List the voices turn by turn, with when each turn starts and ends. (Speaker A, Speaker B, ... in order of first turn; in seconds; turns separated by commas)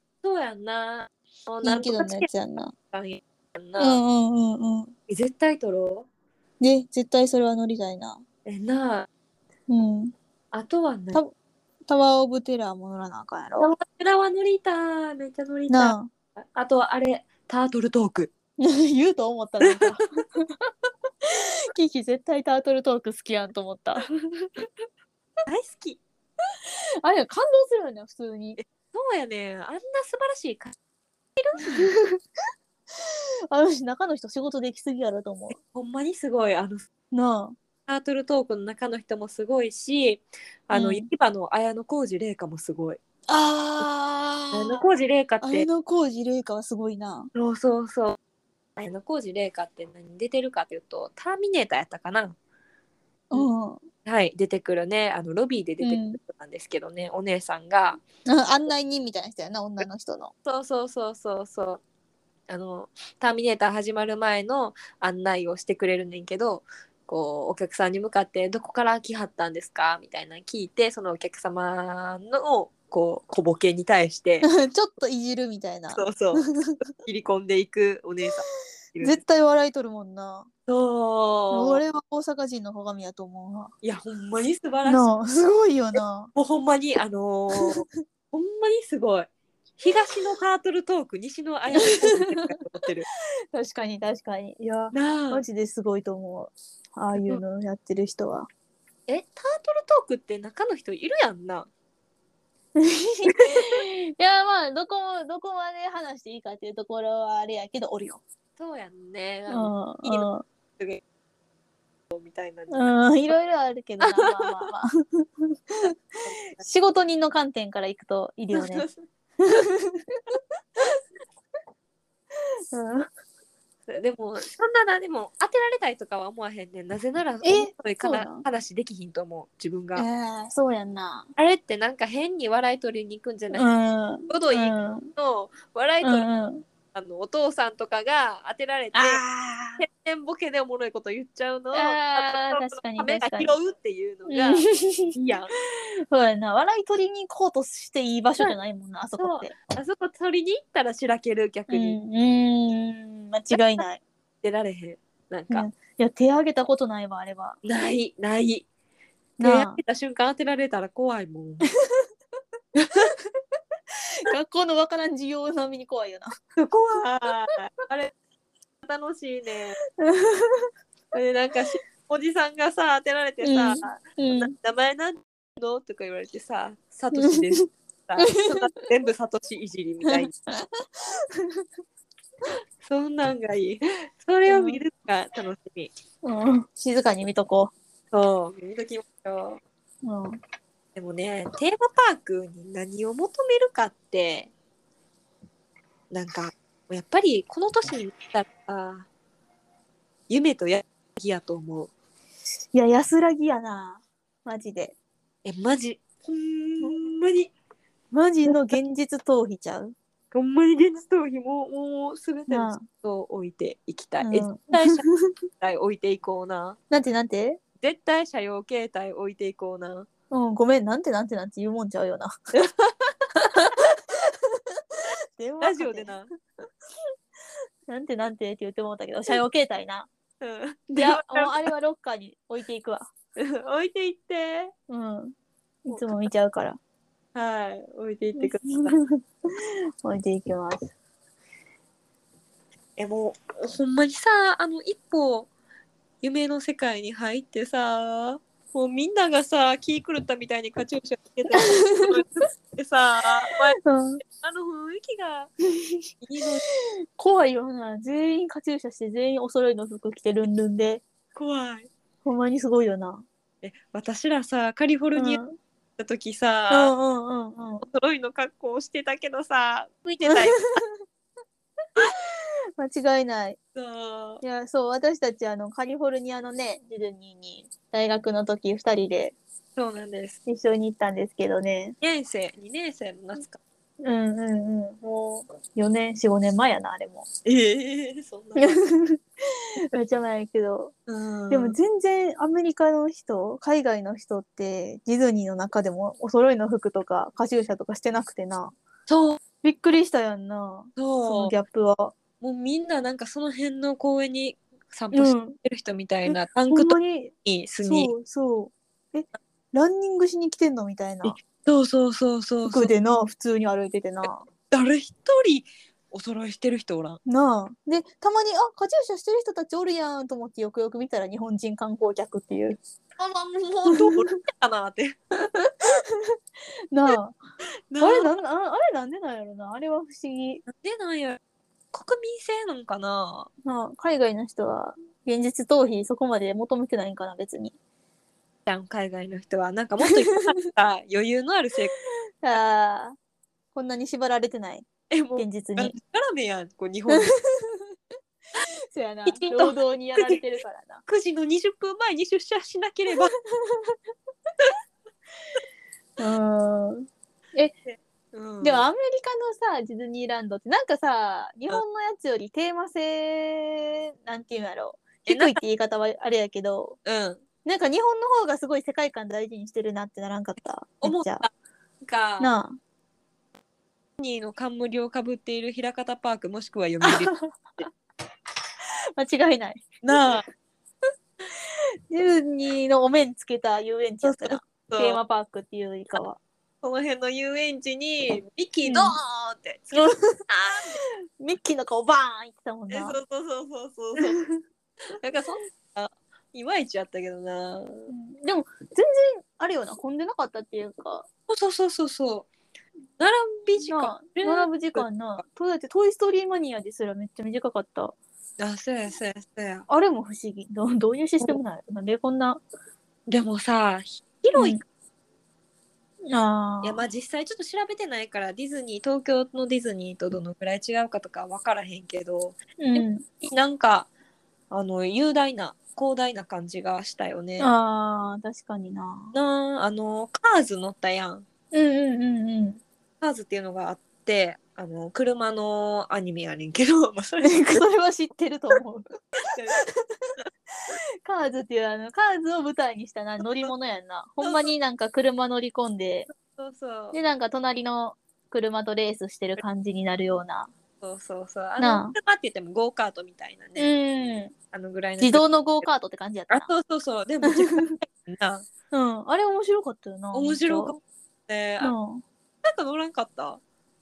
Speaker A: 0.2-2.3, Speaker B: 1.6-2.7, Speaker A: 2.9-4.0, Speaker B: 3.8-4.9, Speaker A: 5.1-6.1, Speaker B: 6.6-8.2, Speaker A: 8.4-9.1, Speaker B: 9.7-10.1, Speaker A: 10.5-11.2, Speaker B: 11.9-13.7, Speaker A: 13.6-18.3, Speaker B: 15.7-16.1, Speaker B: 18.6-20.5, Speaker A: 19.6-19.9, Speaker B: 21.3-24.1, Speaker A: 24.0-24.6, Speaker A: 25.5-26.0, Speaker B: 27.0-28.6, Speaker A: 28.6-30.7, Speaker A: 31.4-31.9, Speaker B: 31.8-32.2, Speaker B: 33.0-35.6, Speaker A: 35.6-36.9, Speaker B: 37.1-37.6, Speaker A: 37.9-43.0, Speaker B: 40.7-41.1, Speaker B: 43.3-44.8, Speaker A: 44.5-45.7, Speaker B: 45.4-47.3, Speaker A: 47.3-48.2, Speaker A: 48.8-52.4, Speaker B: 53.3-53.9, Speaker A: 54.0-58.0, Speaker B: 55.8-56.2, Speaker B: 58.3-60.3, Speaker A: 60.4-61.8, Speaker A: 62.5-74.5, Speaker B: 74.4-76.8, Speaker A: 75.9-76.4, Speaker A: 77.0-79.2, Speaker B: 79.0-80.5, Speaker A: 80.7-81.8, Speaker B: 81.5-83.7, Speaker A: 83.8-85.1, Speaker B: 84.8-86.3, Speaker A: 86.3-93.1, Speaker B: 91.7-92.2, Speaker B: 93.5-98.5, Speaker A: 94.9-95.4, Speaker A: 97.1-97.4, Speaker A: 99.1-101.7, Speaker B: 102.8-108.2, Speaker A: 103.3-103.7, Speaker A: 108.6-111.0, Speaker B: 109.5-110.4, Speaker A: 112.1-112.9, Speaker B: 112.7-115.9, Speaker A: 114.0-114.7, Speaker A: 116.2-116.6, Speaker B: 116.6-118.9, Speaker A: 118.5-119.0, Speaker B: 119.4-120.1, Speaker B: 122.7-123.1, Speaker A: 123.9-130.1, Speaker B: 127.4-128.4, Speaker B: 129.9-131.3, Speaker A: 131.3-133.7, Speaker B: 133.5-135.1, Speaker A: 134.3-136.3, Speaker B: 136.0-136.6, Speaker A: 136.9-139.2, Speaker B: 138.9-139.8, Speaker A: 139.8-145.5, Speaker B: 141.7-143.6, Speaker B: 144.3-145.1, Speaker B: 146.1-149.5, Speaker A: 149.2-152.0, Speaker B: 151.7-154.0, Speaker A: 154.4-155.7, Speaker B: 155.5-157.6, Speaker A: 157.6-158.7, Speaker B: 159.4-159.8, Speaker A: 159.4-161.7, Speaker A: 162.8-163.1, Speaker B: 164.2-166.3, Speaker A: 166.6-168.1, Speaker A: 168.8-169.8, Speaker B: 170.0-170.7, Speaker A: 171.1-180.3, Speaker B: 173.4-174.5, Speaker B: 177.1-177.7, Speaker B: 178.2-178.8, Speaker B: 180.0-181.7, Speaker A: 182.8-185.9, Speaker B: 184.4-184.8, Speaker B: 186.2-187.7, Speaker A: 188.1-189.6, Speaker B: 190.0-190.4, Speaker A: 190.9-194.5, Speaker A: 196.1-199.1, Speaker A: 200.3-201.9, Speaker B: 202.7-204.9, Speaker A: 205.4-207.5, Speaker B: 208.1-209.9, Speaker A: 210.3-215.0, Speaker B: 212.5-212.9, Speaker B: 214.2-215.3, Speaker A: 215.6-216.8, Speaker B: 216.9-217.6, Speaker A: 217.8-220.1, Speaker B: 220.3-222.3, Speaker A: 222.6-223.7, Speaker B: 225.4-226.1, Speaker A: 225.6-226.3, Speaker B: 227.9-230.1, Speaker A: 230.4-231.6, Speaker B: 230.9-233.1, Speaker A: 233.4-234.7, Speaker B: 234.9-236.8, Speaker A: 235.9-236.2, Speaker A: 237.3-239.0, Speaker B: 238.3-240.9, Speaker A: 243.0-245.5, Speaker A: 246.2-255.5, Speaker B: 251.6-252.1, Speaker B: 253.8-254.2, Speaker A: 256.2-256.6, Speaker B: 257.1-261.0, Speaker A: 261.3-261.9, Speaker B: 262.2-263.2, Speaker A: 263.6-265.4, Speaker B: 265.1-265.6, Speaker A: 266.0-266.9, Speaker B: 266.7-267.8, Speaker A: 267.8-270.6, Speaker B: 270.2-270.9, Speaker B: 272.1-273.6, Speaker A: 273.8-274.4, Speaker B: 274.4-279.4, Speaker A: 279.8-280.4, Speaker B: 280.4-282.0, Speaker A: 282.0-283.6, Speaker B: 284.0-287.2, Speaker A: 287.4-288.8, Speaker B: 288.5-289.2, Speaker B: 289.8-290.9, Speaker A: 291.1-291.8, Speaker B: 291.5-298.8, Speaker A: 299.1-299.4, Speaker B: 299.6-302.1, Speaker A: 301.0-301.6, Speaker A: 302.4-308.1, Speaker B: 305.1-305.6, Speaker B: 306.2-311.4, Speaker A: 311.2-312.9, Speaker B: 312.6-314.4, Speaker A: 314.7-317.2, Speaker B: 317.2-322.8, Speaker A: 323.2-325.7, Speaker B: 325.9-326.4, Speaker B: 326.9-327.4, Speaker A: 327.9-328.3, Speaker B: 328.0-330.6, Speaker A: 330.7-331.4, Speaker A: 331.9-333.5, Speaker B: 333.6-337.8, Speaker A: 338.7-341.9, Speaker B: 342.4-343.2, Speaker B: 343.7-345.9, Speaker A: 345.1-347.3, Speaker B: 347.1-347.9, Speaker B: 348.9-351.0, Speaker A: 349.2-350.4, Speaker A: 351.1-353.3, Speaker B: 353.7-353.9, Speaker B: 356.2-357.7, Speaker A: 357.9-358.9, Speaker B: 358.6-367.0, Speaker A: 365.2-365.6, Speaker A: 367.0-367.4, Speaker B: 367.6-371.4, Speaker A: 371.0-371.5, Speaker A: 372.0-372.5, Speaker B: 372.4-372.8, Speaker A: 374.2-377.3, Speaker B: 377.1-377.8, Speaker B: 379.2-380.3, Speaker A: 380.0-380.4, Speaker B: 382.1-386.4, Speaker A: 384.2-385.2, Speaker A: 386.8-391.0, Speaker B: 388.8-389.1, Speaker B: 389.9-390.4, Speaker B: 391.4-393.2, Speaker A: 392.9-394.4, Speaker B: 394.2-394.6, Speaker A: 395.2-398.1, Speaker B: 398.1-401.3, Speaker A: 401.5-402.5, Speaker A: 403.2-405.0, Speaker B: 403.8-408.1, Speaker A: 408.6-409.9, Speaker B: 409.9-412.6, Speaker A: 413.3-414.8, Speaker B: 414.5-414.8, Speaker B: 416.3-417.1, Speaker A: 416.8-424.1, Speaker B: 422.8-423.3, Speaker A: 424.7-427.7, Speaker B: 427.6-429.3, Speaker A: 429.3-431.4, Speaker B: 431.7-432.8, Speaker A: 433.2-437.8, Speaker B: 437.4-439.1, Speaker A: 439.5-439.8, Speaker B: 441.2-446.3, Speaker A: 444.4-444.7, Speaker A: 446.4-447.2, Speaker B: 447.1-450.7, Speaker A: 451.0-453.9, Speaker B: 451.8-452.2, Speaker B: 453.8-454.5, Speaker A: 454.7-455.4, Speaker B: 455.2-456.7, Speaker A: 456.5-458.6, Speaker B: 457.4-457.9, Speaker B: 458.9-460.9, Speaker A: 460.3-461.9, Speaker B: 461.8-462.2, Speaker A: 462.6-463.6